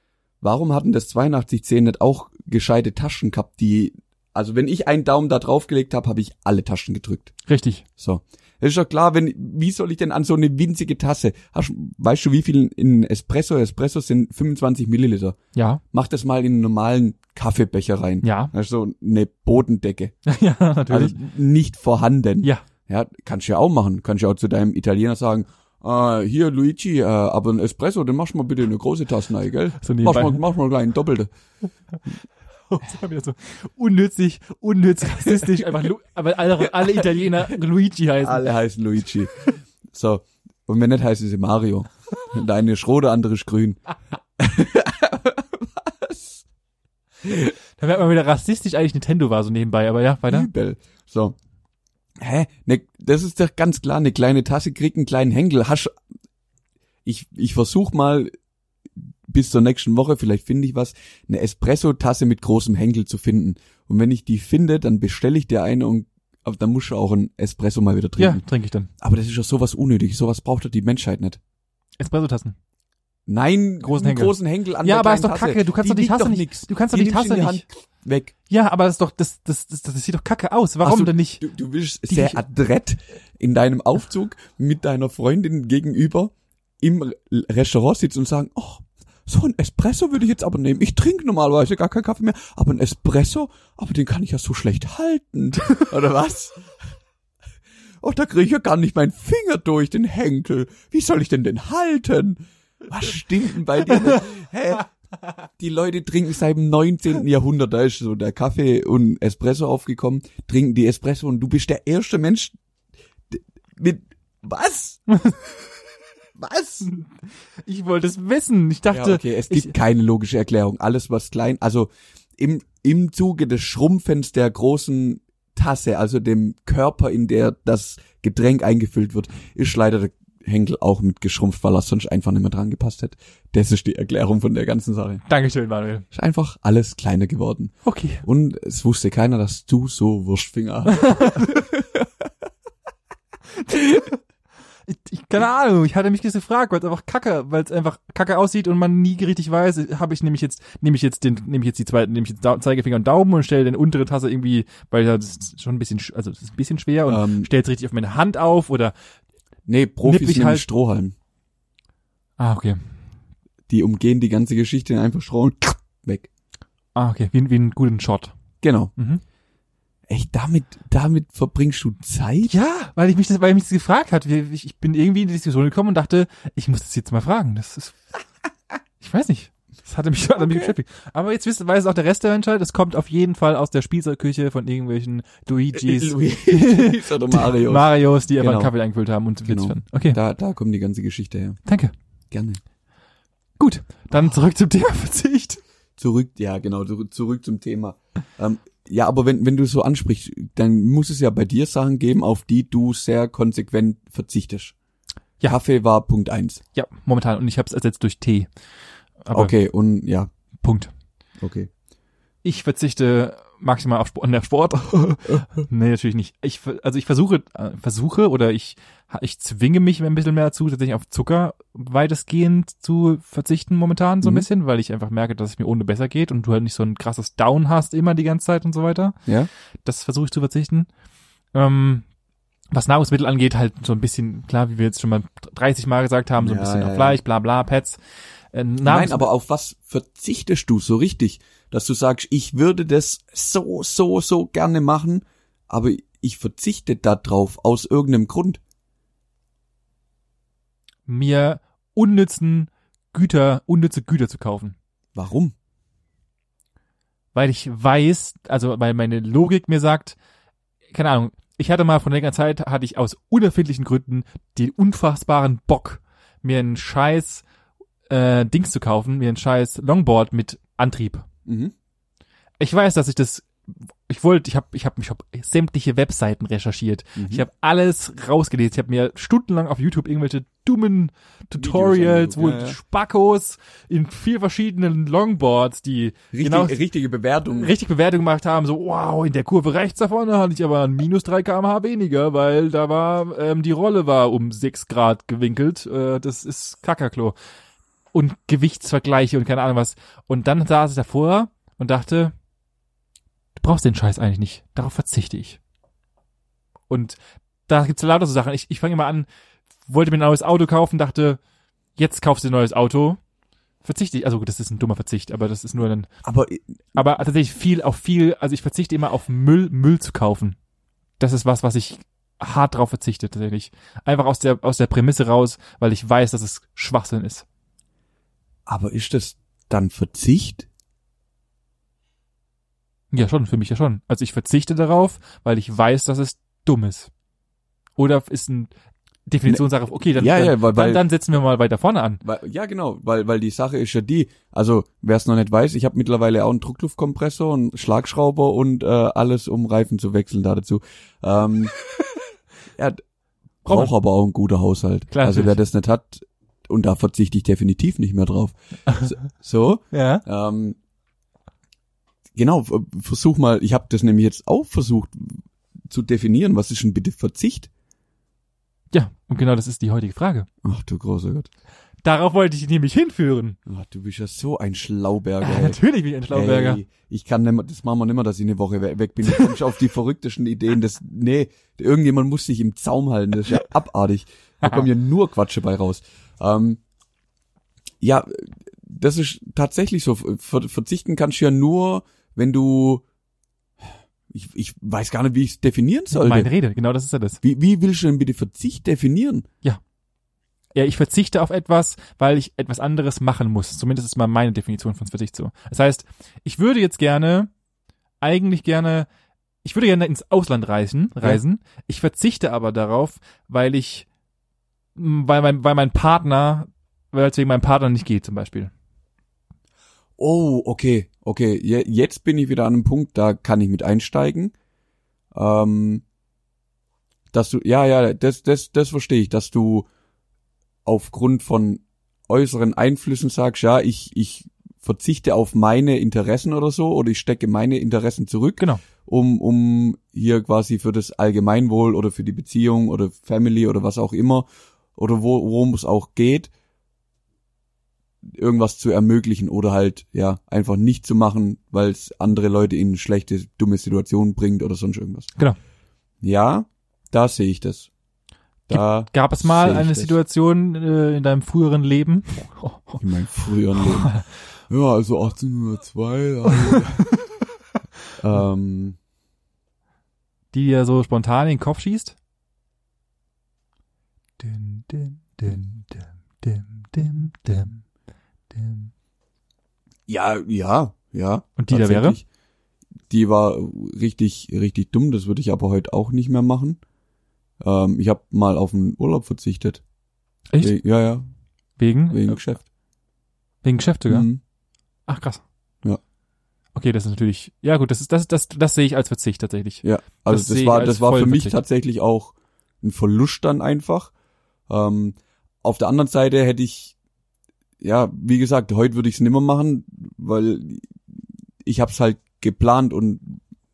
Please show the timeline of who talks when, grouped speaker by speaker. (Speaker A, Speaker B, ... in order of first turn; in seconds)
Speaker A: 0.4-7.3, 8.0-15.4, 15.9-20.1, 20.9-31.3, 35.3-35.6, 38.2-43.8, 44.4-46.5, 47.2-47.5, 50.3-51.4, 52.2-55.9, 57.0-58.3, 59.0-68.4, 69.0-71.4, 73.3-78.3, 80.8-96.7, 98.0-104.9, 105.6-112.5, 113.3-115.0, 116.4-116.9, 118.9-135.2, 136.1-142.1, 157.1-157.5, 159.7-161.2, 163.7-166.3, 168.6-168.9, 170.1-172.5, 180.4-180.7, 185.7-188.7, 189.5-191.6, 192.3-192.6, 196.0-204.7, 205.5-206.6, 209.3-210.3, 211.4-211.7, 236.4-237.2, 238.8-248.6, 255.1-255.5, 271.5-271.7, 277.2-277.5, 281.6-282.8, 286.3-287.7, 316.2-316.6, 328.7-330.7, 340.2-341.0, 342.2-351.7, 352.8-353.0, 353.6-360.8, 362.4-367.7, 370.6-371.5, 373.7-375.8, 376.3-386.8, 388.0-393.0, 394.3-396.5, 397.4-399.5, 420.2-424.5, 425.3-426.0, 427.3-429.9, 430.9-446.5, 448.2-455.3, 456.2-457.9, 458.7-460.2, 463.0-464.1, 464.7-467.1, 468.2-469.0, 480.1-482.2, 483.1-486.8, 487.6-489.8, 490.6-491.2, 492.1-492.6, 494.1-494.4, 499.8-504.1, 504.7-506.9, 507.8-510.9, 511.6-513.4
Speaker B: 7.5-7.8, 15.6-15.8, 18.2-18.5, 20.3-21.2, 29.8-30.4, 32.7-38.5, 47.8-50.5, 68.2-68.9, 72.0-72.5, 73.8-77.7, 78.5-81.4, 82.1-82.4, 117.7-119.7, 135.3-136.1, 137.8-138.2, 140.9-141.5, 143.6-144.2, 144.9-158.9, 160.1-160.7, 162.4-162.8, 167.0-168.3, 169.0-169.2, 172.4-178.0, 179.0-190.2, 191.7-191.9, 193.6-195.6, 206.7-208.5, 209.2-209.6, 210.6-210.9, 212.4-229.2, 229.8-230.9, 231.5-232.1, 232.7-238.0, 238.5-239.3, 251.1-254.8, 257.4-260.2, 260.9-267.4, 268.1-271.3, 272.6-273.5, 274.1-286.8, 287.5-297.4, 298.1-302.3, 303.6-305.6, 306.9-309.3, 309.9-311.4, 312.0-313.2, 313.8-316.1, 316.9-320.6, 321.2-327.5, 333.1-337.1, 338.0-338.7, 339.3-342.2, 353.7-353.9, 355.1-355.6, 359.9-360.2, 368.9-370.5, 372.0-373.6, 375.4-376.8, 384.6-384.9, 396.1-397.4, 400.8-407.5, 408.2-409.1, 409.6-414.1, 415.0-418.7, 458.7-463.0, 463.7-464.3, 470.5-472.1, 474.4-477.8, 478.5-478.9, 481.6-482.2, 490.5-490.8, 491.8-492.4, 493.6-494.3, 495.1-495.4, 496.8-501.6